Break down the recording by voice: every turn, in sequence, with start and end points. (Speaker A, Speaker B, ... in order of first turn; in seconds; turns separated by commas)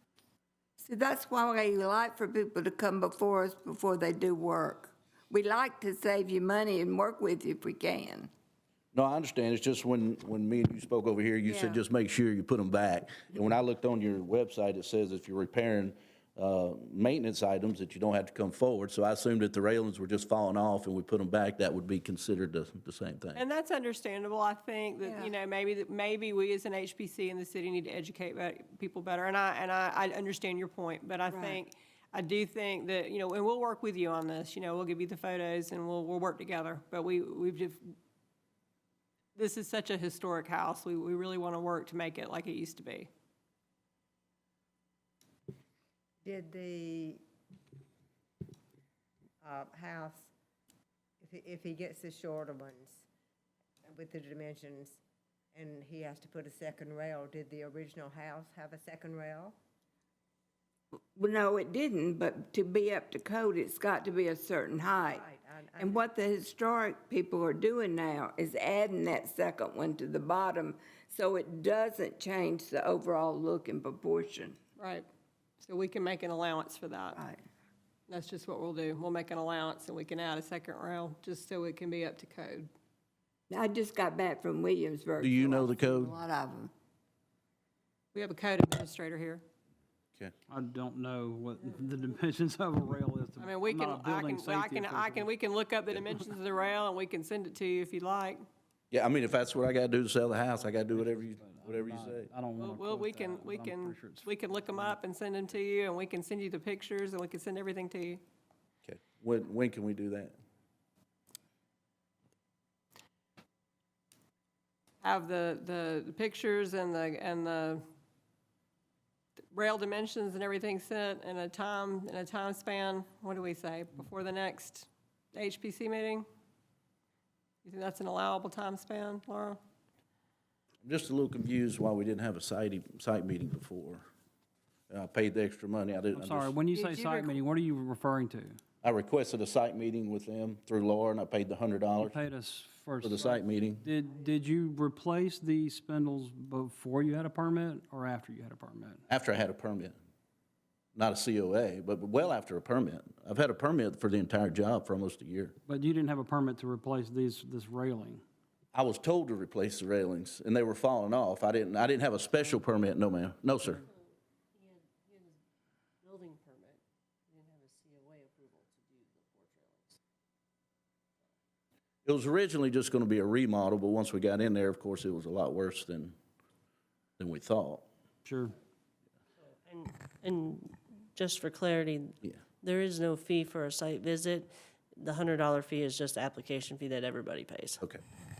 Speaker A: 0.8-8.3, Speaker B: 8.9-23.4, Speaker A: 11.4-11.8, Speaker C: 23.3-37.9, Speaker A: 25.0-25.3, Speaker A: 31.3-31.6, Speaker C: 39.3-43.1, Speaker D: 46.2-47.2, Speaker D: 49.4-50.3, Speaker D: 51.2-53.0, Speaker D: 53.9-55.0, Speaker D: 55.5-59.5, Speaker A: 61.1-74.5, Speaker D: 64.9-66.0, Speaker C: 74.8-75.1, Speaker C: 75.6-77.2, Speaker C: 78.1-82.7, Speaker A: 83.5-86.7, Speaker B: 85.2-86.2, Speaker C: 88.1-89.4, Speaker E: 90.5-95.3, Speaker C: 93.4-98.4, Speaker B: 98.9-102.3, Speaker E: 100.9-105.0, Speaker C: 102.6-108.2, Speaker B: 108.8-110.3, Speaker C: 115.0-117.8, Speaker C: 119.5-126.2, Speaker C: 127.6-129.6, Speaker B: 130.8-134.1, Speaker B: 134.9-136.6, Speaker E: 136.1-138.6, Speaker B: 138.8-142.2, Speaker E: 142.0-149.0, Speaker B: 143.0-143.9, Speaker B: 149.1-149.9, Speaker B: 150.9-155.6, Speaker E: 155.7-158.2, Speaker B: 158.7-163.8, Speaker F: 164.7-165.3, Speaker F: 166.0-166.8, Speaker F: 167.4-169.9, Speaker B: 172.1-176.1, Speaker B: 177.2-177.9, Speaker E: 178.2-178.5, Speaker F: 179.7-187.8